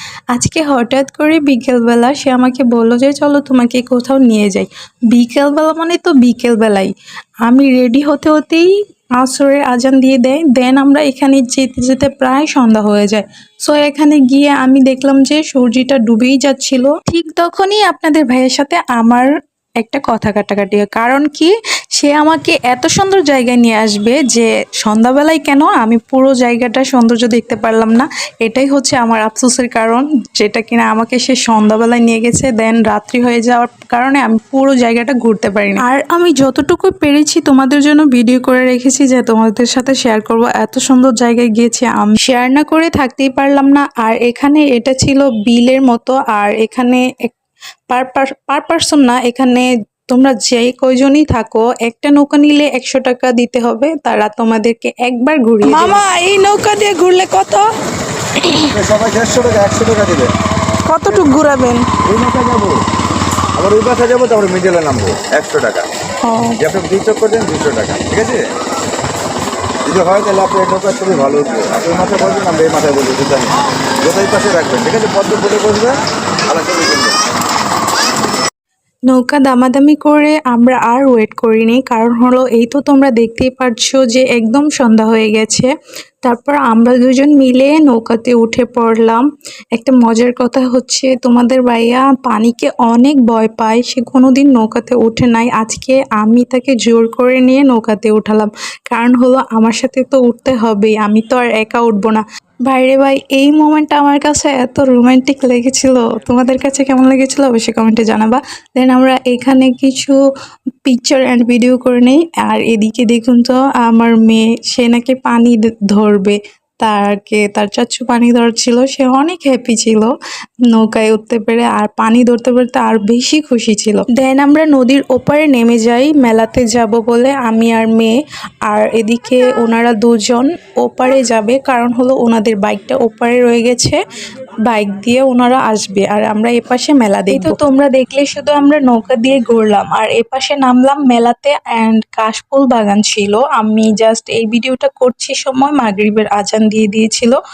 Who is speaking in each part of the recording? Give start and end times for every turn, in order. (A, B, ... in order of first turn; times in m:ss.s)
0:00.3-0:06.9 A
0:07.4-0:19.3 A
0:19.8-0:47.3 A
0:47.9-0:56.0 A
0:55.6-0:57.7 B
0:58.4-0:58.7 B
0:58.7-1:00.3 C
1:00.8-1:01.8 B
1:02.0-1:02.8 C
1:03.6-1:05.9 C
1:06.6-1:08.5 C
1:09.8-1:17.1 C
1:19.1-1:25.7 A
1:26.2-1:50.2 A
1:50.8-2:00.1 A
2:00.7-2:08.1 A
2:08.7-2:14.0 A
2:14.6-2:27.4 A
2:17.3-2:17.6 B